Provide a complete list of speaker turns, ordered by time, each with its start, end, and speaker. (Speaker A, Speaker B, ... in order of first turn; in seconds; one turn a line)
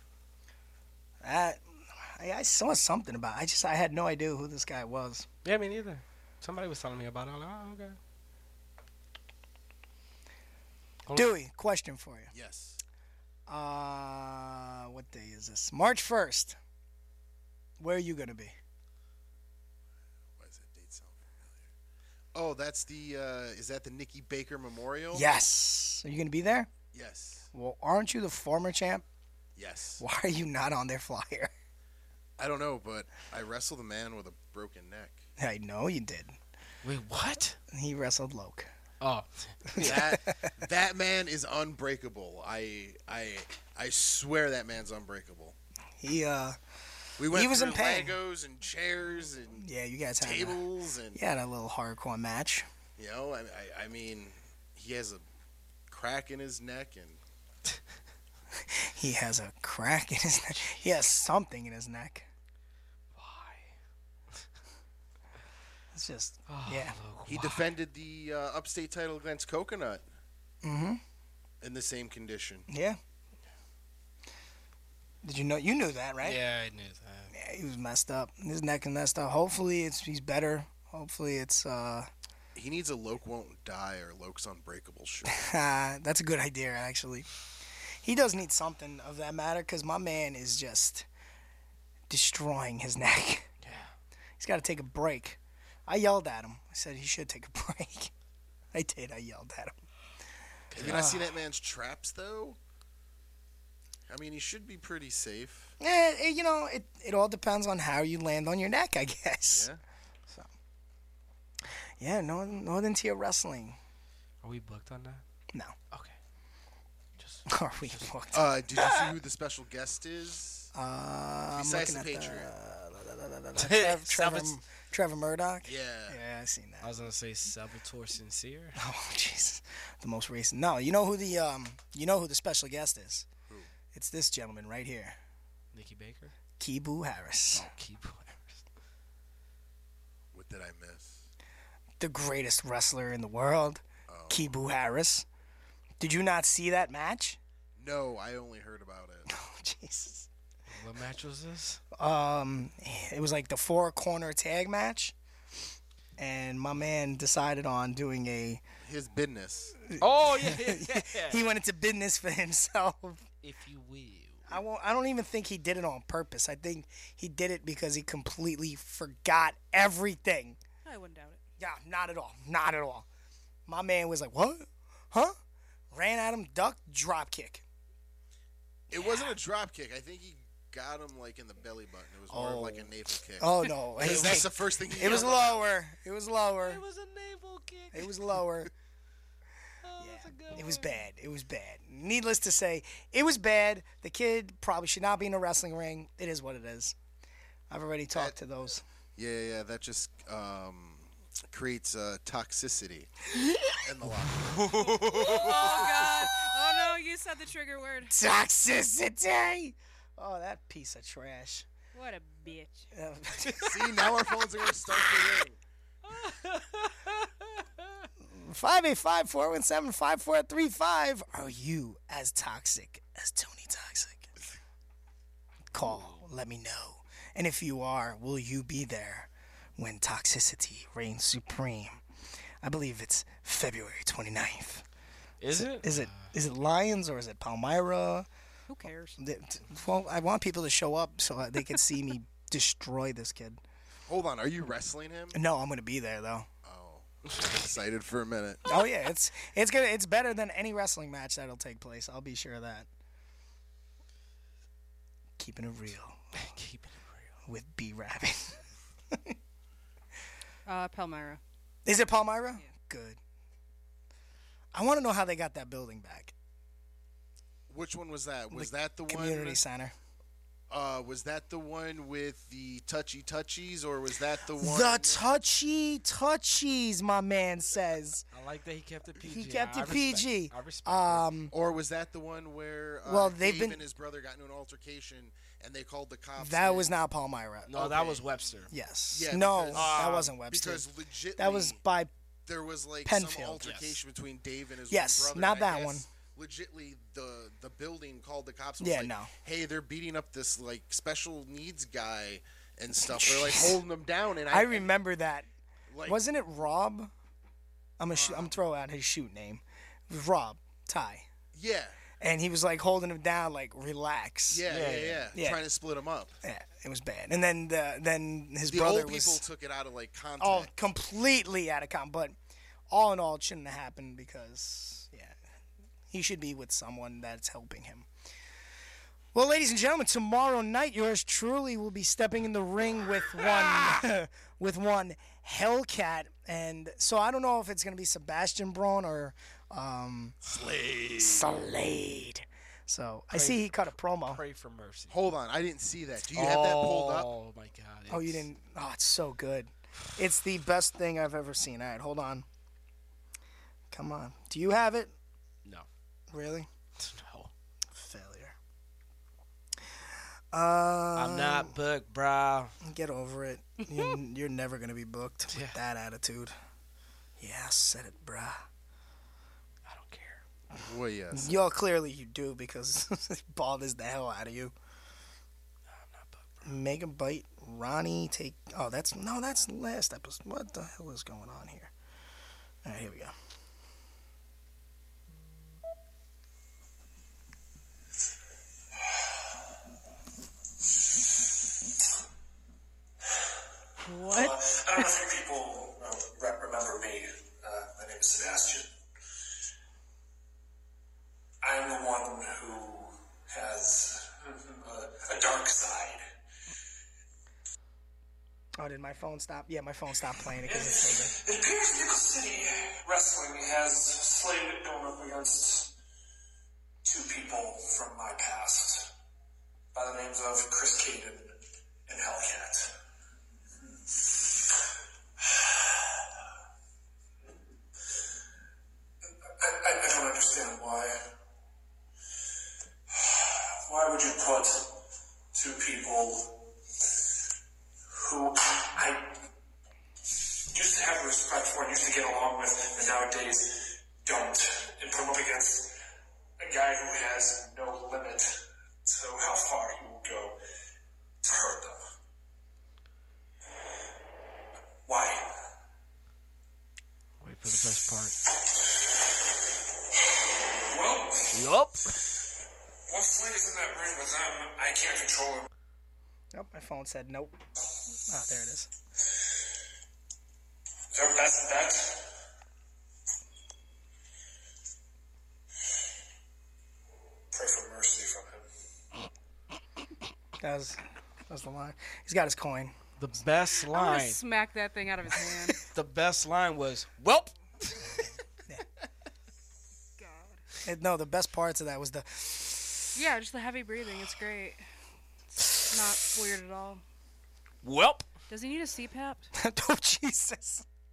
Speaker A: 1.2-5.3
Speaker B: 5.4-8.0
Speaker B: 11.1-11.3
Speaker A: 11.1-12.3
Speaker C: 12.3-12.8
Speaker A: 13.5-16.6
Speaker A: 17.8-18.6
Speaker C: 20.4-21.7
Speaker C: 22.3-25.3
Speaker A: 25.1-26.7
Speaker C: 26.9-27.5
Speaker A: 27.5-29.1
Speaker C: 29.6-30.0
Speaker A: 30.0-31.5
Speaker C: 32.4-35.2
Speaker A: 35.4-36.4
Speaker B: 36.8-37.6
Speaker A: 37.7-38.7
Speaker B: 39.0-40.2
Speaker A: 39.7-40.5
Speaker C: 39.8-45.5
Speaker A: 46.0-46.6
Speaker A: 47.2-48.2
Speaker C: 47.2-49.7
Speaker A: 49.6-52.7
Speaker C: 50.2-51.2
Speaker C: 53.0-55.2
Speaker C: 55.9-57.2
Speaker A: 58.6-62.3
Speaker B: 63.2-63.7
Speaker A: 65.9-67.0
Speaker B: 66.5-67.7
Speaker C: 67.3-70.1
Speaker A: 70.6-71.0
Speaker C: 71.6-72.7
Speaker A: 72.7-73.0
Speaker A: 75.2-76.4
Speaker B: 76.2-77.3
Speaker A: 77.3-82.1
Speaker C: 82.5-85.5
Speaker A: 85.3-87.3
Speaker A: 88.0-91.1
Speaker A: 92.1-93.5
Speaker B: 93.6-93.9
Speaker A: 94.4-98.1
Speaker A: 98.7-99.8
Speaker B: 100.7-101.2
Speaker A: 100.8-101.3
Speaker C: 100.8-102.6
Speaker C: 104.1-105.8
Speaker A: 105.8-109.7
Speaker C: 109.5-109.8
Speaker A: 111.6-113.8
Speaker B: 114.4-115.2
Speaker A: 115.5-115.8
Speaker B: 115.9-116.2
Speaker B: 117.2-118.1
Speaker A: 117.5-119.2
Speaker C: 118.3-120.7
Speaker A: 120.7-126.9
Speaker C: 121.5-122.5
Speaker B: 123.6-124.6
Speaker C: 125.6-126.2
Speaker B: 126.8-128.8
Speaker A: 128.8-133.3
Speaker A: 133.9-135.2
Speaker B: 135.7-136.3
Speaker A: 136.6-137.7
Speaker B: 137.5-138.6
Speaker C: 140.3-141.3
Speaker A: 142.0-145.3
Speaker C: 144.1-144.5
Speaker A: 146.0-147.4
Speaker C: 147.8-149.3
Speaker A: 149.3-150.3
Speaker B: 150.7-151.8
Speaker A: 151.9-155.2
Speaker A: 156.2-158.6
Speaker C: 158.8-159.8
Speaker A: 159.9-163.2
Speaker B: 160.0-161.4
Speaker B: 163.4-164.5
Speaker A: 164.5-170.6
Speaker D: 170.8-171.4
Speaker A: 171.6-173.1
Speaker A: 173.7-175.3
Speaker A: 175.9-177.6
Speaker C: 178.9-185.7
Speaker A: 182.3-186.8
Speaker B: 184.0-185.6
Speaker B: 186.6-188.4
Speaker A: 187.9-188.7
Speaker B: 189.8-191.0
Speaker A: 190.0-197.0
Speaker A: 197.7-198.8
Speaker C: 199.2-203.1
Speaker C: 203.8-206.3
Speaker D: 204.8-208.2
Speaker A: 208.1-211.7
Speaker D: 211.9-212.9
Speaker A: 212.9-214.1
Speaker C: 213.6-215.6
Speaker B: 216.1-218.1
Speaker A: 218.2-224.3
Speaker A: 225.7-232.0
Speaker B: 225.8-226.2
Speaker A: 232.6-234.8
Speaker B: 235.4-236.3
Speaker A: 235.6-238.3
Speaker D: 238.7-239.2
Speaker A: 239.2-243.6
Speaker C: 244.1-245.4
Speaker A: 245.3-246.5
Speaker C: 246.6-248.6
Speaker A: 248.7-252.9
Speaker A: 255.4-256.3
Speaker B: 256.4-257.3
Speaker A: 257.5-259.4
Speaker D: 260.7-261.4
Speaker A: 261.9-263.2
Speaker A: 264.7-266.3
Speaker C: 267.7-269.6
Speaker A: 268.5-269.9
Speaker C: 270.7-275.2
Speaker A: 274.6-278.3
Speaker B: 278.3-281.3
Speaker A: 279.2-281.5
Speaker C: 281.5-286.9
Speaker A: 283.0-283.9
Speaker A: 286.4-287.9
Speaker B: 287.7-288.7
Speaker C: 287.8-288.2
Speaker A: 288.7-292.1
Speaker C: 289.1-291.8
Speaker B: 289.7-290.4
Speaker C: 292.5-304.9
Speaker A: 293.0-293.8
Speaker B: 293.6-294.0
Speaker A: 294.9-296.1
Speaker A: 298.8-299.3
Speaker A: 303.0-303.8
Speaker A: 304.5-305.5
Speaker C: 305.9-306.2
Speaker A: 306.1-307.1
Speaker A: 308.0-311.3
Speaker C: 308.1-308.6
Speaker C: 311.5-312.1
Speaker A: 312.2-314.7
Speaker C: 314.5-316.4
Speaker B: 314.7-315.3
Speaker A: 315.3-315.6
Speaker A: 316.4-319.4
Speaker C: 318.7-320.7
Speaker A: 320.4-322.4
Speaker A: 322.9-325.4
Speaker A: 326.1-328.1
Speaker A: 329.3-340.4
Speaker C: 340.5-341.4
Speaker A: 341.2-344.4
Speaker B: 343.3-345.2
Speaker C: 345.1-347.3
Speaker B: 346.3-348.5
Speaker A: 348.1-352.5
Speaker A: 353.9-355.1
Speaker A: 356.3-356.7
Speaker B: 357.0-357.5
Speaker A: 357.9-358.6
Speaker A: 360.5-361.7
Speaker B: 361.1-362.8
Speaker A: 362.8-366.6
Speaker B: 365.5-365.8
Speaker A: 367.4-368.6
Speaker B: 369.9-370.4
Speaker C: 370.8-371.6
Speaker A: 371.3-374.8
Speaker B: 375.9-376.7
Speaker A: 376.6-381.9
Speaker A: 382.8-383.4
Speaker D: 394.0-395.1
Speaker E: 394.3-398.9
Speaker E: 401.6-406.2
Speaker A: 408.8-411.4
Speaker E: 410.7-415.9
Speaker E: 417.1-419.1
Speaker E: 419.9-421.5
Speaker E: 422.1-422.9
Speaker E: 424.2-424.6
Speaker E: 425.4-426.2
Speaker E: 429.6-431.2
Speaker E: 433.1-434.9
Speaker E: 435.5-436.5
Speaker E: 438.1-439.4
Speaker E: 440.7-445.9
Speaker E: 446.6-448.5
Speaker E: 449.1-450.6
Speaker E: 451.4-452.0
Speaker E: 455.1-455.5
Speaker B: 457.4-458.4
Speaker E: 460.9-461.6
Speaker B: 461.5-462.2
Speaker E: 463.1-465.7
Speaker A: 466.5-467.6
Speaker A: 468.3-468.9
Speaker E: 471.1-472.2
Speaker E: 477.5-478.6
Speaker A: 480.6-482.9
Speaker B: 483.2-484.4
Speaker D: 483.9-485.9
Speaker B: 485.9-488.3
Speaker D: 490.2-490.6
Speaker A: 490.9-493.1
Speaker D: 493.1-494.8
Speaker D: 495.7-497.0
Speaker B: 497.8-498.3
Speaker D: 498.5-499.5
Speaker A: 499.5-500.9